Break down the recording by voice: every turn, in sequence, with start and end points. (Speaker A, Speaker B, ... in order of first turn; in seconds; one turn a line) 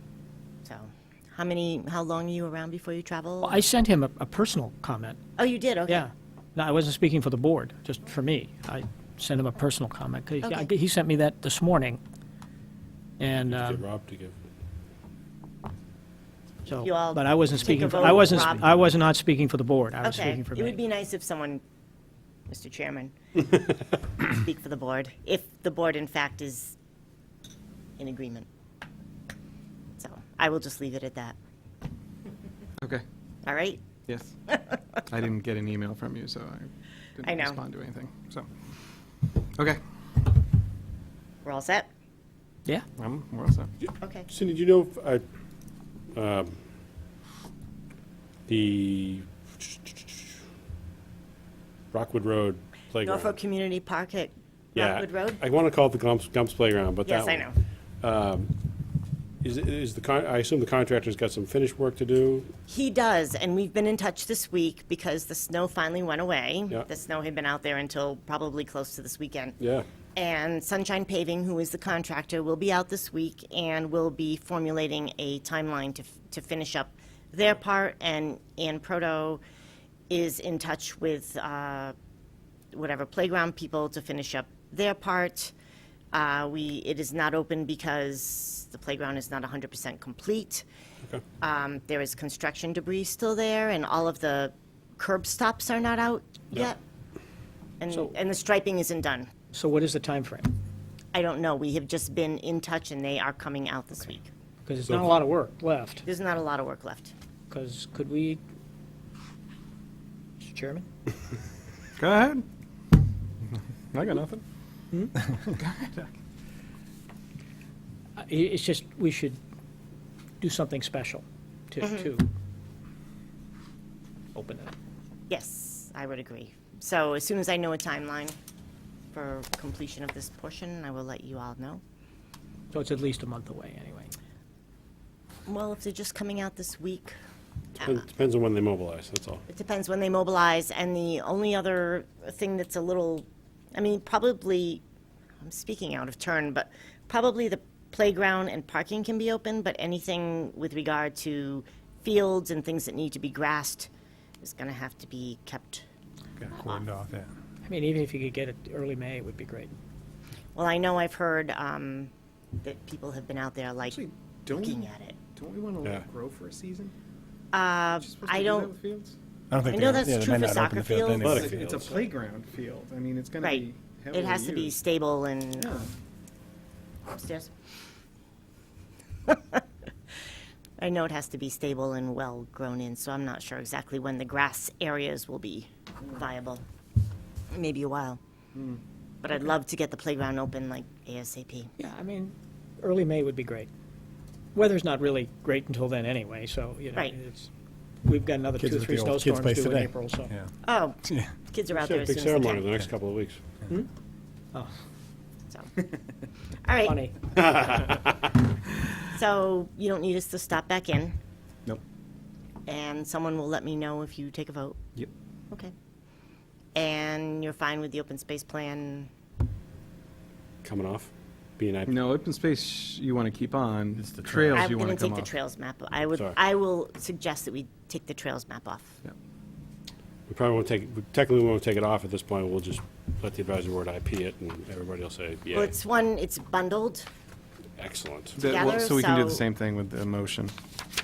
Speaker A: 0.6-3.6
Speaker B: 3.4-5.2
Speaker A: 5.4-6.0
Speaker B: 5.8-12.0
Speaker B: 13.2-13.8
Speaker C: 13.4-14.4
Speaker B: 16.6-20.8
Speaker A: 16.8-18.7
Speaker A: 20.0-21.6
Speaker A: 22.5-23.1
Speaker A: 24.2-26.7
Speaker A: 28.0-28.5
Speaker A: 30.0-31.4
Speaker A: 33.4-33.8
Speaker D: 34.1-34.3
Speaker D: 35.0-38.5
Speaker A: 37.2-37.6
Speaker D: 39.3-39.8
Speaker A: 41.4-41.9
Speaker D: 43.0-43.7
Speaker C: 43.8-45.2
Speaker A: 44.0-44.3
Speaker C: 46.1-46.6
Speaker C: 48.5-50.4
Speaker C: 51.9-53.3
Speaker A: 53.0-55.4
Speaker C: 54.8-57.5
Speaker A: 57.0-57.5
Speaker C: 58.0-58.5
Speaker C: 59.4-62.5
Speaker A: 62.7-69.6
Speaker C: 69.6-69.8
Speaker A: 70.1-79.4
Speaker A: 80.1-81.9
Speaker A: 82.7-85.5
Speaker A: 86.1-90.6
Speaker A: 91.4-96.8
Speaker A: 97.8-99.3
Speaker B: 97.9-98.1
Speaker B: 99.5-100.5
Speaker A: 101.1-104.3
Speaker B: 104.6-106.0
Speaker C: 104.9-105.1
Speaker A: 106.0-107.1
Speaker B: 107.5-108.4
Speaker B: 110.4-110.8
Speaker D: 112.0-112.4
Speaker D: 113.9-114.4
Speaker D: 115.3-116.1
Speaker B: 118.2-119.4
Speaker B: 120.4-122.3
Speaker A: 121.8-122.1
Speaker B: 124.3-124.7
Speaker A: 125.3-128.4
Speaker A: 129.1-131.8
Speaker B: 132.7-134.1
Speaker A: 135.5-137.1
Speaker C: 137.8-139.4
Speaker A: 139.5-144.8
Speaker A: 145.4-153.9
Speaker A: 154.4-155.8
Speaker E: 156.4-157.3
Speaker B: 157.6-159.7
Speaker A: 160.5-165.2
Speaker D: 163.8-166.9
Speaker A: 167.5-168.7
Speaker D: 168.0-169.1
Speaker E: 169.5-171.6
Speaker A: 169.7-171.4
Speaker C: 171.2-172.1
Speaker D: 171.2-174.8
Speaker A: 173.4-175.9
Speaker D: 175.6-175.9
Speaker A: 177.1-177.5
Speaker A: 179.3-179.6
Speaker A: 180.8-186.6
Speaker A: 187.5-188.2
Speaker D: 188.6-188.8
Speaker A: 189.2-191.7
Speaker B: 191.8-193.7
Speaker B: 194.5-197.5
Speaker B: 198.0-200.3
Speaker E: 198.6-200.5
Speaker A: 200.6-202.7
Speaker E: 201.0-201.3
Speaker C: 201.7-203.4
Speaker A: 206.6-207.1
Speaker B: 206.8-207.2
Speaker C: 207.3-208.2
Speaker A: 209.1-211.2
Speaker A: 212.7-214.8
Speaker A: 216.7-219.1
Speaker C: 220.6-222.0
Speaker D: 221.8-225.3
Speaker E: 224.0-224.7
Speaker A: 224.5-228.9
Speaker C: 230.3-235.7
Speaker A: 235.5-237.1
Speaker C: 237.8-238.4
Speaker D: 238.3-240.5
Speaker A: 238.4-239.4